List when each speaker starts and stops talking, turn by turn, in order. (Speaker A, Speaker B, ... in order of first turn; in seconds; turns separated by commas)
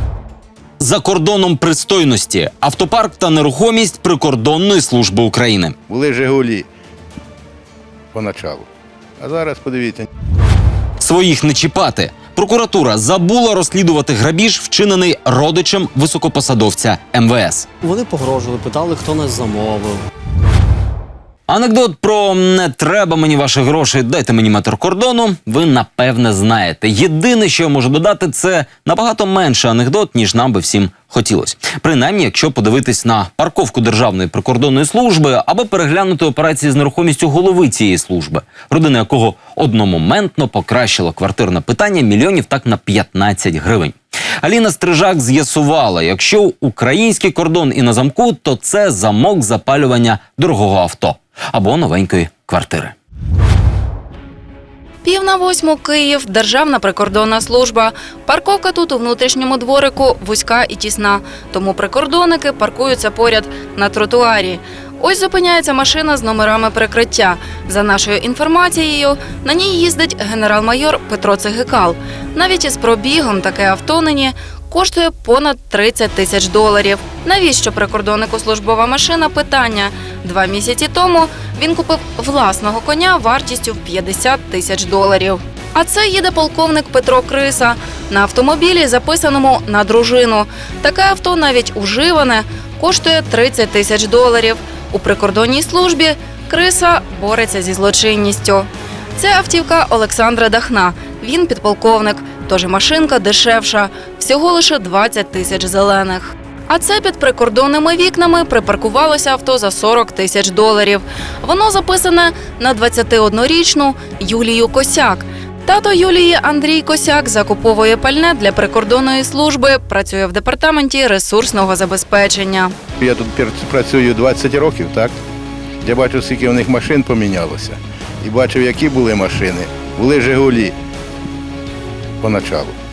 Speaker A: 0.8-5.8, Speaker B: 5.9-6.7, Speaker B: 8.1-8.7, Speaker B: 9.2-10.1, Speaker A: 11.0-17.7, Speaker C: 17.8-20.0, Speaker A: 21.5-52.9, Speaker D: 55.0-122.8, Speaker B: 123.0-125.2, Speaker B: 125.8-130.8, Speaker B: 132.2-132.7